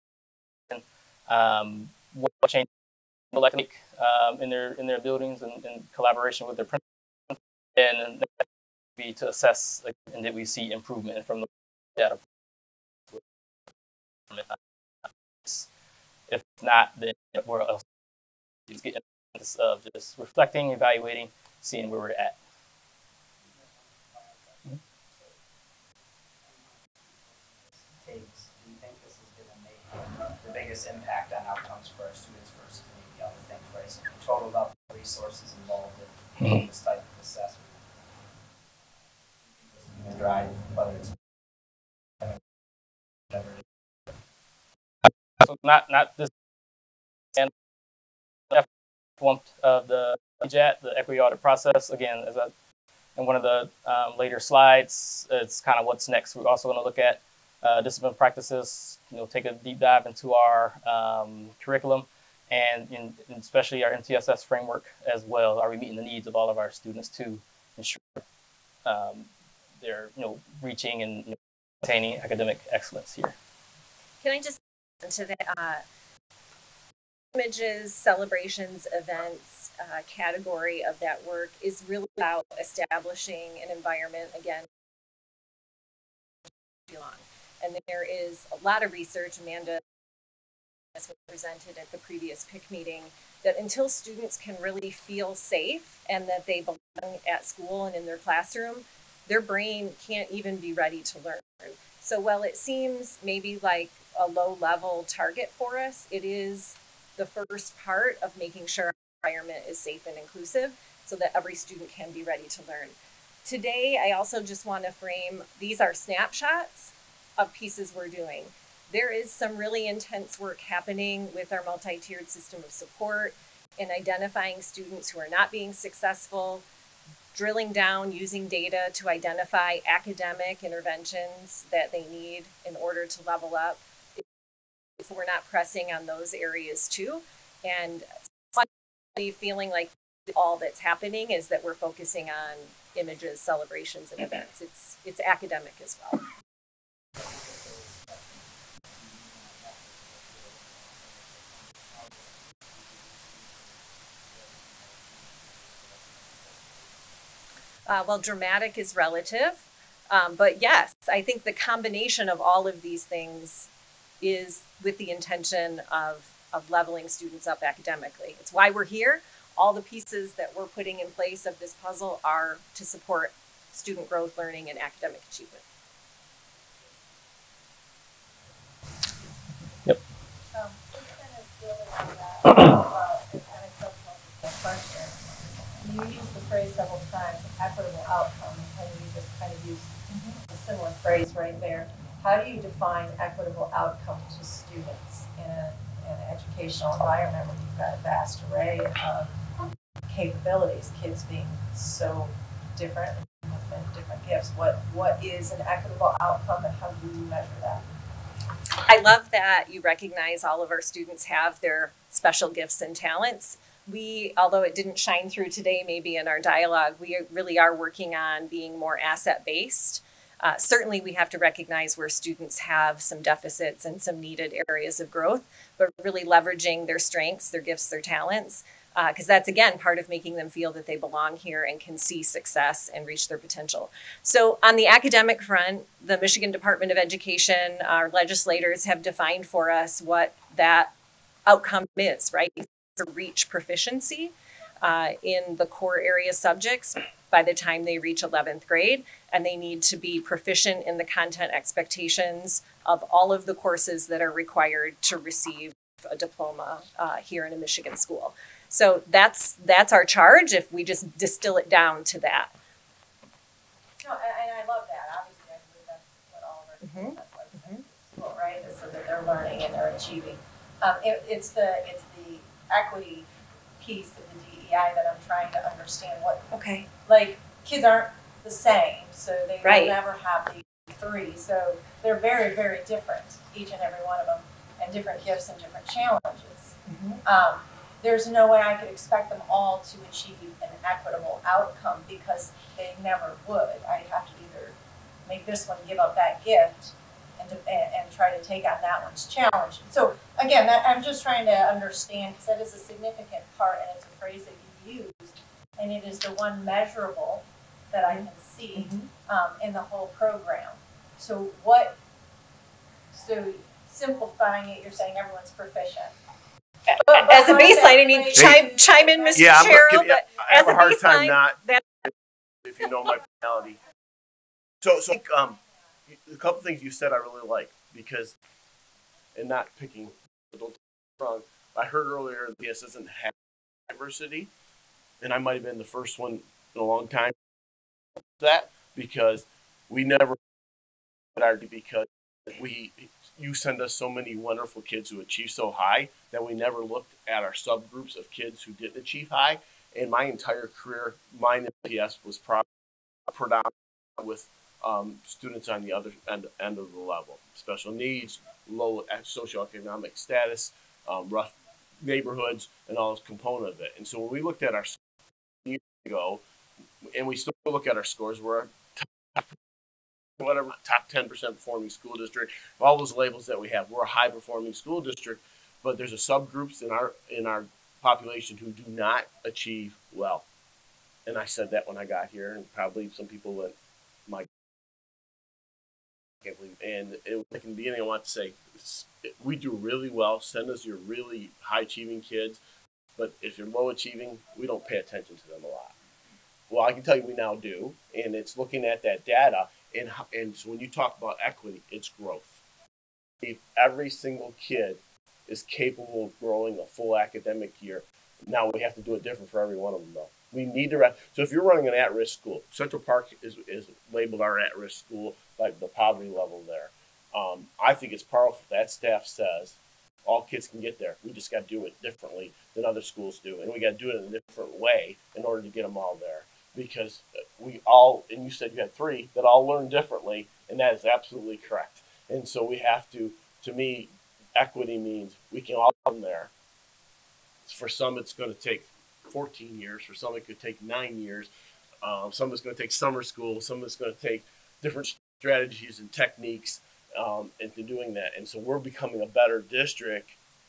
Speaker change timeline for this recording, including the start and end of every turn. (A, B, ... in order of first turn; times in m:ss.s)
0:00.7-0:02.7 A
0:03.3-0:08.4 A
0:09.0-0:12.2 A
0:14.3-0:14.6 A
0:16.3-0:17.8 A
0:18.7-0:22.4 A
0:23.4-0:25.4 B
0:26.4-0:38.2 B
0:38.8-0:41.2 B
0:43.3-0:43.6 B
0:45.4-0:46.3 A
0:49.2-0:52.5 A
0:53.2-1:08.2 A
1:08.8-1:09.3 A
1:09.8-1:13.4 A
1:14.2-1:15.8 C
1:17.3-1:24.7 C
1:26.9-1:29.8 C
1:30.9-2:06.6 C
2:07.3-2:14.2 C
2:15.0-2:26.2 C
2:27.2-2:37.1 B
2:37.8-2:43.7 C
2:44.2-2:55.6 C
2:56.5-2:57.7 B
2:58.2-2:58.6 B
3:00.5-3:19.3 D
3:20.1-3:27.8 D
3:28.8-4:00.9 C
4:01.4-4:22.5 C
4:24.0-4:33.3 D
4:26.8-4:27.8 C
4:33.8-5:12.0 D
4:36.5-4:36.9 C
4:39.6-4:40.0 C
4:46.9-4:47.2 C
5:08.0-5:09.1 C
5:13.1-5:16.1 D
5:16.9-5:21.8 C
5:17.0-5:19.9 D
5:18.3-5:18.6 E
5:19.3-5:22.1 E
5:22.6-5:23.8 E
5:24.8-5:28.4 E
5:29.3-5:33.3 E
5:33.9-5:34.5 E
5:35.2-5:37.3 E
5:38.4-5:40.4 E
5:41.3-5:52.6 E
5:53.3-6:05.0 E
6:05.6-6:06.4 E
6:07.1-6:09.5 E
6:10.4-6:20.4 E
6:21.2-6:23.7 E
6:26.4-6:32.6 E
6:33.2-6:35.9 E
6:36.7-6:42.6 E
6:43.4-7:16.5 E
7:17.6-7:21.5 E
7:22.0-7:30.4 E